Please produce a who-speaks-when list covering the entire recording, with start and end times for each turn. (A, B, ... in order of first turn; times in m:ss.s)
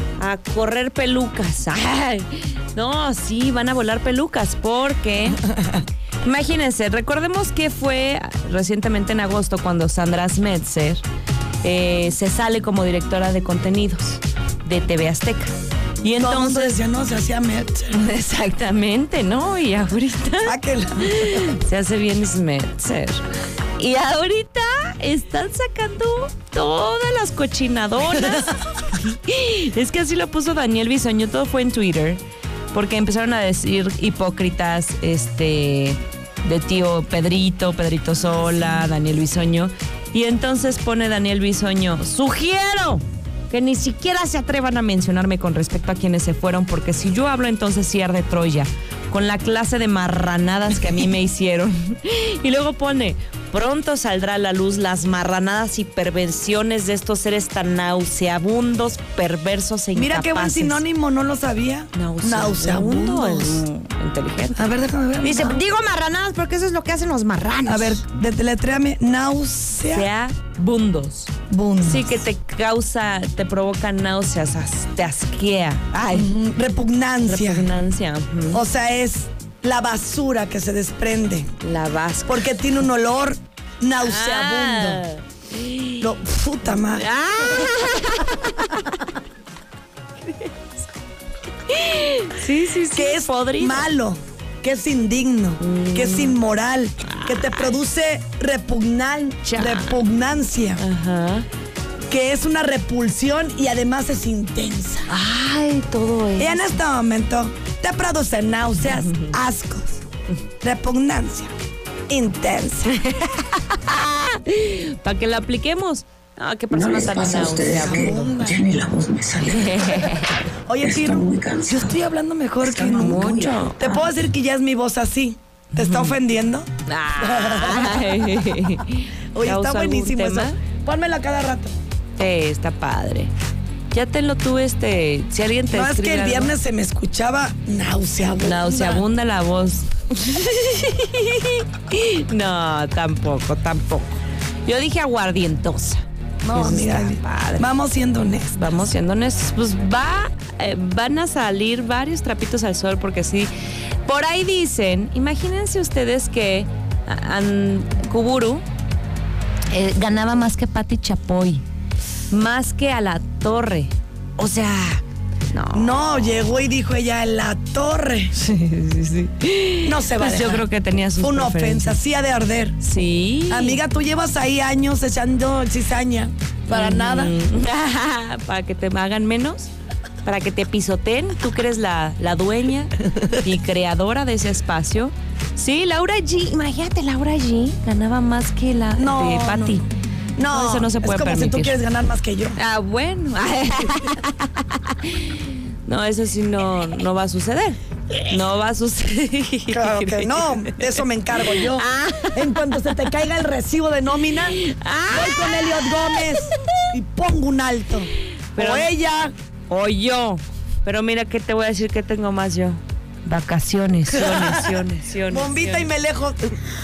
0:00.2-0:05.4 A
0:05.4-0:05.9 B
0:06.2-0:11.0 A
0:11.6-0:16.8 A
0:16.2-0:18.0 B
0:17.9-0:23.2 A
0:20.4-0:21.6 B
0:23.8-1:00.8 A
0:28.1-0:28.6 B
1:00.0-1:03.7 B
1:01.9-1:04.7 A
1:04.5-1:05.6 B
1:05.2-1:08.0 A
1:07.7-1:10.1 B
1:09.9-1:16.3 A
1:11.5-1:12.1 B
1:16.1-1:17.7 B
1:17.2-1:18.6 A
1:18.5-1:21.5 B
1:21.6-1:22.7 A
1:22.3-1:25.1 B
1:24.0-1:26.1 A
1:26.0-1:27.0 B
1:26.6-1:29.2 A
1:31.6-1:33.9 A
1:32.9-1:40.8 B
1:35.6-1:36.4 A
1:37.0-1:37.8 A
1:39.5-1:40.0 A
1:40.8-1:41.5 A
1:42.1-1:45.1 B
1:45.1-1:46.8 A
1:46.4-1:50.0 B
1:48.9-1:49.4 A
1:50.6-1:51.5 B
1:52.1-1:52.9 B
1:52.9-1:58.3 A
1:56.7-2:00.2 C
1:57.7-1:58.6 B
1:59.5-2:00.4 A
2:00.7-2:08.8 B
2:00.8-2:02.0 C
2:02.6-2:04.1 C
2:02.8-2:03.8 A
2:05.8-2:06.2 A
2:06.9-2:10.6 A
2:09.3-2:11.7 B
2:12.2-2:13.3 A
2:13.9-2:16.5 A
2:15.7-2:19.0 B
2:18.4-2:24.1 A
2:24.6-2:27.7 A
2:26.4-2:28.6 B
2:28.5-2:33.5 A
2:34.0-2:38.6 A
2:39.7-2:41.6 A
2:42.3-2:46.1 A
2:45.7-2:48.3 B
2:48.3-2:52.0 A
2:49.8-2:52.8 B
2:52.8-2:53.8 A
2:53.5-2:57.3 B
2:56.7-2:59.7 A
3:00.2-3:09.9 A
3:09.0-3:09.8 B
3:10.4-3:12.6 B
3:10.5-3:11.8 A
3:12.6-3:23.1 A
3:19.7-3:29.3 B
3:24.3-3:26.9 A
3:28.6-3:28.9 A
3:29.7-3:35.9 A
3:34.1-3:34.7 B
3:35.3-3:36.6 B